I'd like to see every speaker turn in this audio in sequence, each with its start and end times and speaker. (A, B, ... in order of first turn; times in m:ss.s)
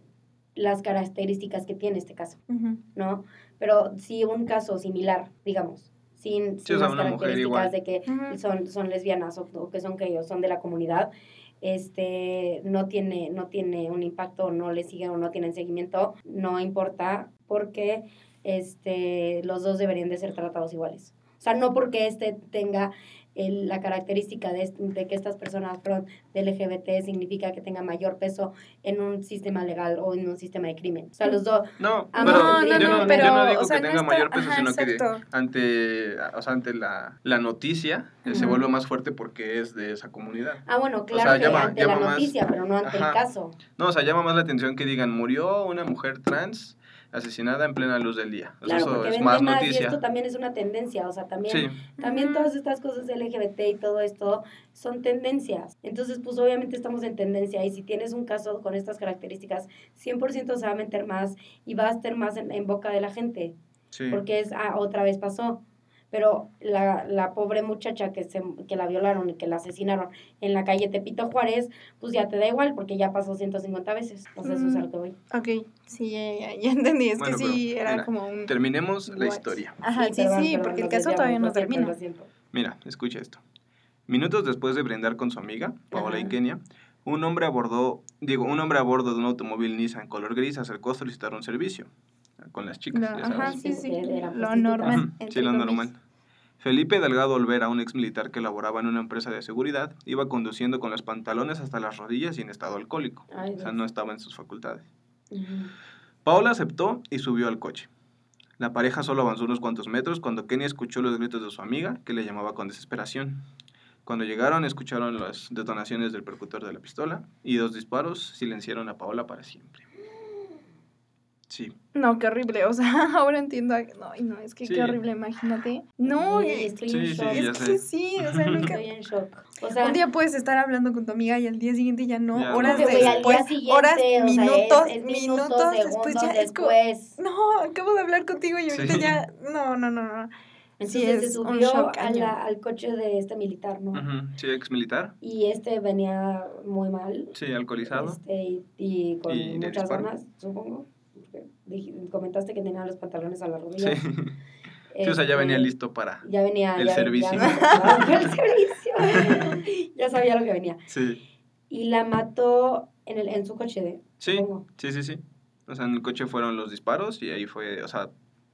0:00.6-0:02.4 A
0:02.5-0:02.8 B
0:03.0-0:11.1 A
0:06.6-0:07.7 C
0:08.1-0:08.4 B
0:11.6-0:33.3 A
0:31.8-0:43.2 C
0:32.2-0:35.2 B
0:38.2-0:38.6 A
0:38.3-0:38.6 B
0:40.7-0:43.6 A
0:43.7-0:50.0 C
0:48.6-1:03.6 A
0:51.5-0:51.8 C
0:52.0-0:52.5 B
1:03.9-1:04.2 C
1:04.1-1:15.2 A
1:14.4-1:22.0 B
1:17.2-1:19.8 C
1:20.0-1:22.3 A
1:22.5-1:23.4 C
1:24.1-1:33.6 C
1:25.9-1:26.3 A
1:32.9-1:35.9 B
1:33.3-1:35.0 A
1:34.9-1:36.0 C
1:36.6-1:44.9 C
1:43.3-1:43.8 A
1:45.3-1:45.7 A
1:46.2-1:47.9 C
1:48.6-1:53.4 C
1:54.0-1:59.8 C
2:00.0-2:00.6 A
2:01.5-2:01.7 C
2:01.9-2:06.7 B
2:04.6-2:05.0 C
2:06.0-2:07.5 A
2:06.9-2:08.7 C
2:07.3-2:08.8 B
2:08.6-2:10.0 A
2:09.8-2:20.3 B
2:12.3-2:13.3 C
2:12.6-2:17.2 A
2:18.7-2:19.2 C
2:20.8-2:24.0 A
2:20.8-2:22.4 B
2:23.9-2:25.1 C
2:25.2-2:27.4 A
2:27.3-2:28.2 C
2:27.9-2:34.0 A
2:29.3-2:30.1 C
2:33.8-2:34.4 C
2:34.9-2:35.7 A
2:35.0-2:36.2 C
2:36.2-2:40.9 A
2:36.8-2:38.3 C
2:37.4-2:37.9 B
2:39.1-2:39.5 C
2:40.9-2:41.2 C
2:41.7-2:44.6 A
2:44.2-2:48.1 C